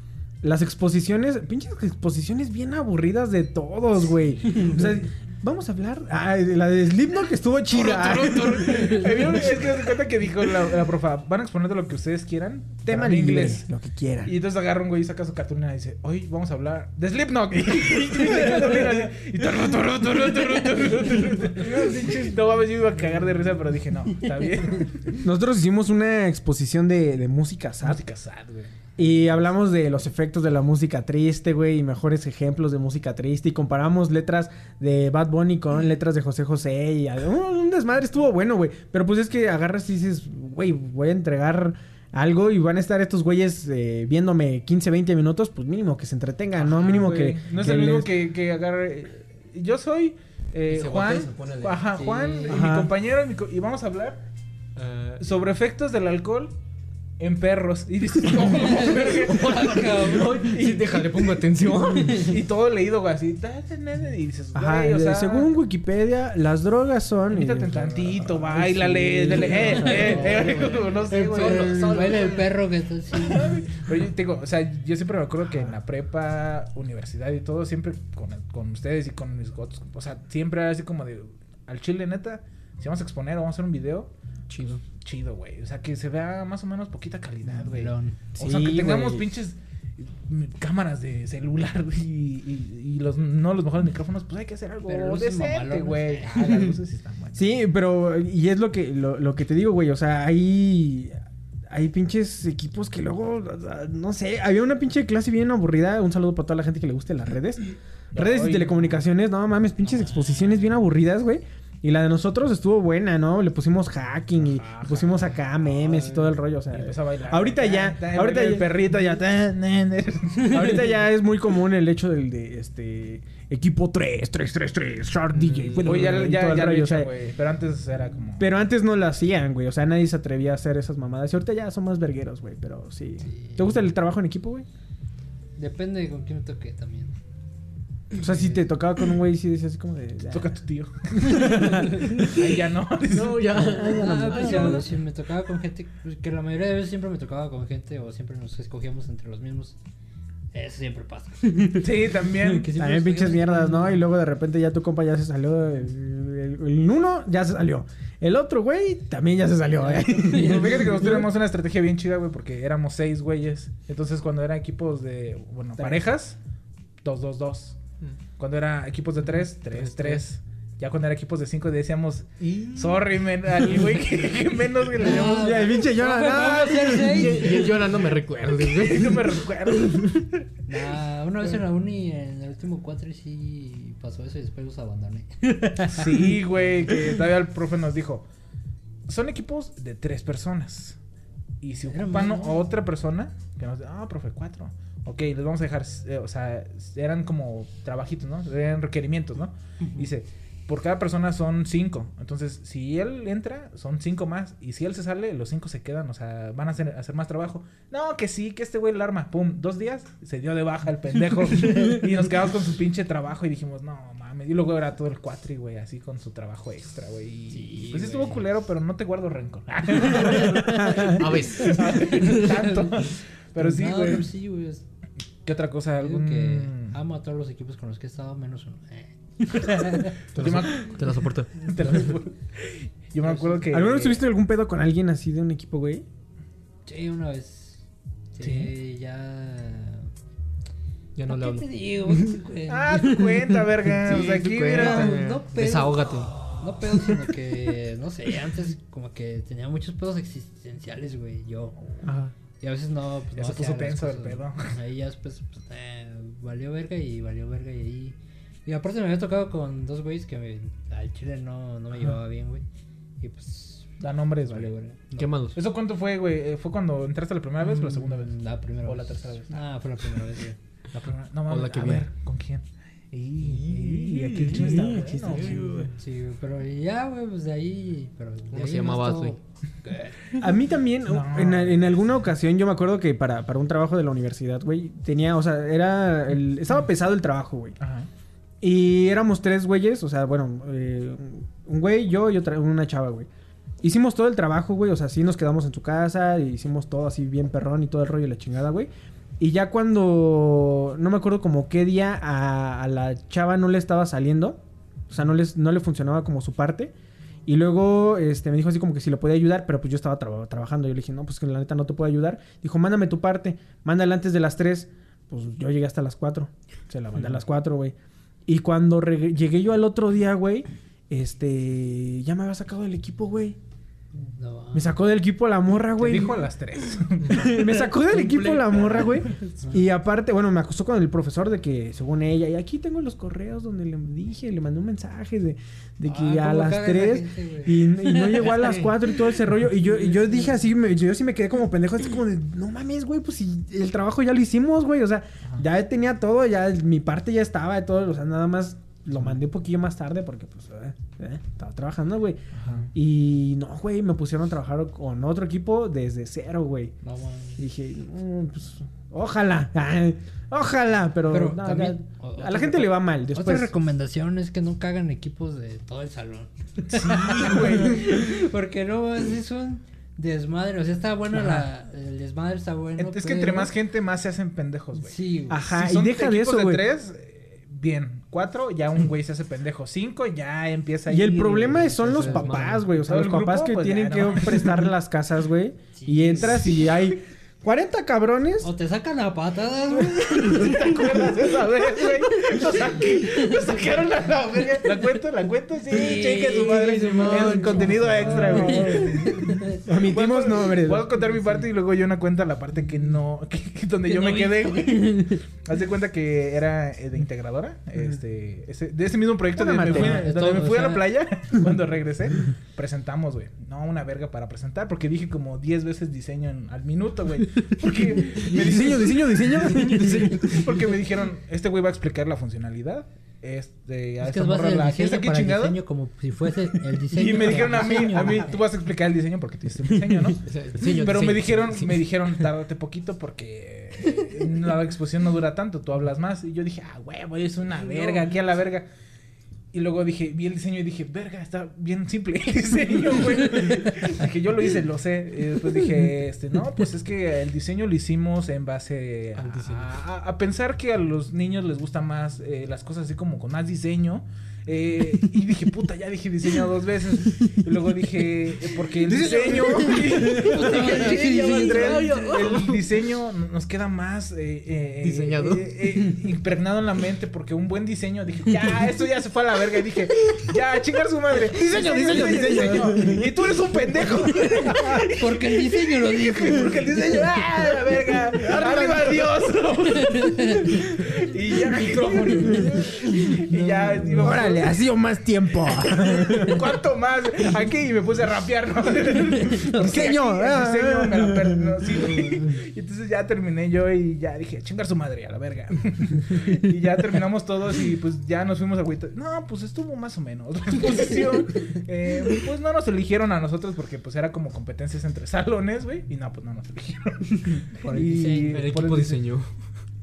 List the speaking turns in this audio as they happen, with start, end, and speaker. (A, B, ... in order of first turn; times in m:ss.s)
0:00.4-0:09.5 A
0:07.7-0:13.6 B
0:08.0-0:08.5 C
0:12.8-0:14.3 A
0:14.2-0:25.2 B
0:18.1-0:19.1 A
0:25.2-0:28.0 A
0:27.8-0:28.8 B
0:29.0-0:48.1 A
0:46.6-0:54.2 B
0:50.7-0:51.8 C
0:51.9-0:52.6 D
0:52.5-0:52.9 A
0:54.8-0:55.2 C
0:55.2-0:56.5 B
0:57.2-1:01.4 B
0:58.4-1:00.5 D
0:58.5-1:02.3 C
1:01.9-1:02.3 D
1:02.1-1:05.5 B
1:04.5-1:10.3 A
1:07.3-1:12.1 B
1:08.6-1:13.7 D
1:09.7-1:12.6 C
1:13.2-1:24.1 B
1:15.4-1:15.8 A
1:24.5-1:24.8 C
1:24.9-1:37.5 B
1:27.5-1:28.2 D
1:28.4-1:29.3 A
1:34.9-1:36.8 D
1:37.4-1:41.2 A
1:41.7-1:47.6 A
1:48.1-1:49.0 B
1:48.1-1:59.0 A
1:54.4-2:01.0 B
2:00.5-2:07.1 A
2:05.4-2:06.0 C
2:05.8-2:08.5 B
2:08.4-2:14.7 A
2:13.2-2:13.7 D
2:15.6-2:17.1 D
2:18.1-2:20.6 A
2:18.2-2:18.6 D
2:20.3-2:23.8 B
2:21.2-2:22.5 A
2:23.1-2:24.8 C
2:23.5-2:24.9 A
2:23.7-2:29.8 D
2:30.5-2:34.0 D
2:31.8-2:32.7 B
2:32.7-2:41.3 A
2:40.1-2:40.9 D
2:40.2-2:46.4 B
2:45.8-2:46.1 A
2:47.0-2:47.8 B
2:48.4-2:55.6 B
2:49.7-2:50.2 C
2:52.6-2:53.0 C
2:55.0-2:57.6 D
2:55.0-2:57.6 A
2:56.9-3:00.0 C
2:58.7-3:00.4 B
3:00.7-3:06.3 D
3:05.9-3:08.3 B
3:09.1-3:11.0 B
3:11.6-3:44.3 B
3:11.9-3:12.7 D
3:19.8-3:20.1 D
3:37.5-3:38.5 D
3:40.0-3:41.2 D
3:40.8-3:41.2 A
3:41.0-3:42.3 C
3:41.9-3:44.8 D
3:45.4-3:47.0 B
3:46.0-3:50.2 D
3:49.6-3:51.0 B
3:50.3-3:52.1 C
3:51.6-3:54.2 B
3:53.2-3:53.7 D
3:53.7-3:56.0 A
3:56.9-3:57.8 D
3:58.3-4:00.1 D
3:58.4-3:58.7 B
4:01.2-4:02.4 C
4:01.3-4:03.9 D
4:02.7-4:05.2 B
4:04.0-4:06.4 C
4:04.7-4:06.0 D
4:06.6-4:11.8 D
4:12.0-4:12.3 A
4:12.6-4:22.6 D
4:13.4-4:14.7 B
4:23.2-4:23.9 D
4:24.0-4:24.7 B
4:24.4-4:25.3 D
4:25.2-4:25.6 C
4:25.6-4:29.6 B
4:27.6-4:30.6 D
4:30.9-4:35.9 B
4:31.5-4:32.1 C
4:33.5-4:35.8 C
4:33.7-4:35.9 A
4:36.0-4:40.4 D
4:38.5-4:39.4 C
4:40.4-4:47.8 A
4:41.1-4:42.1 B
4:47.8-4:48.1 B
4:48.6-4:53.3 A
4:53.8-4:58.9 A
4:59.4-5:06.9 A
5:07.5-5:23.6 A
5:24.2-5:25.0 D
5:24.7-5:26.5 A
5:26.0-5:27.7 B
5:27.2-5:27.6 C
5:27.3-5:56.9 A
5:28.1-5:29.4 C
5:36.1-5:38.8 D
5:38.4-5:38.9 C
5:39.6-5:40.6 D
5:52.5-5:52.9 B
5:57.0-5:57.6 D
5:57.6-6:03.7 A
6:01.3-6:13.7 D
6:06.8-6:08.3 B
6:13.0-6:24.9 B
6:15.0-6:15.6 D
6:15.5-6:16.8 A
6:21.1-6:28.7 A
6:22.1-6:22.5 C
6:22.2-6:22.8 D
6:26.0-6:26.6 D
6:26.4-6:27.0 B
6:28.6-6:31.1 D
6:30.0-7:05.8 B
6:32.4-6:33.8 D
6:35.9-6:39.8 D
6:36.6-6:38.6 C
6:38.1-6:41.1 A
6:44.1-6:45.4 D
6:49.6-6:50.3 A
6:49.8-6:51.1 D
6:58.3-6:58.6 D
6:58.5-7:00.6 A
7:00.0-7:00.3 D
7:04.2-7:08.5 D
7:07.1-7:18.9 B
7:07.7-7:08.5 A
7:10.4-7:12.1 C
7:19.7-8:04.7 B
7:29.4-7:30.0 C
7:39.0-7:42.1 A
7:39.5-7:42.3 D
7:40.3-7:43.0 C
7:45.0-7:45.8 C
7:51.5-7:53.2 A
7:52.3-7:52.8 D
7:54.6-7:57.4 D
7:54.7-7:55.0 A
7:58.4-7:59.3 A
8:00.0-8:00.8 D
8:01.7-8:02.8 C
8:02.2-8:04.5 D
8:04.1-8:06.6 A
8:05.8-8:29.2 B
8:09.6-8:10.0 D
8:09.8-8:11.9 A
8:12.1-8:12.5 D
8:27.5-8:28.6 D
8:28.5-8:29.5 C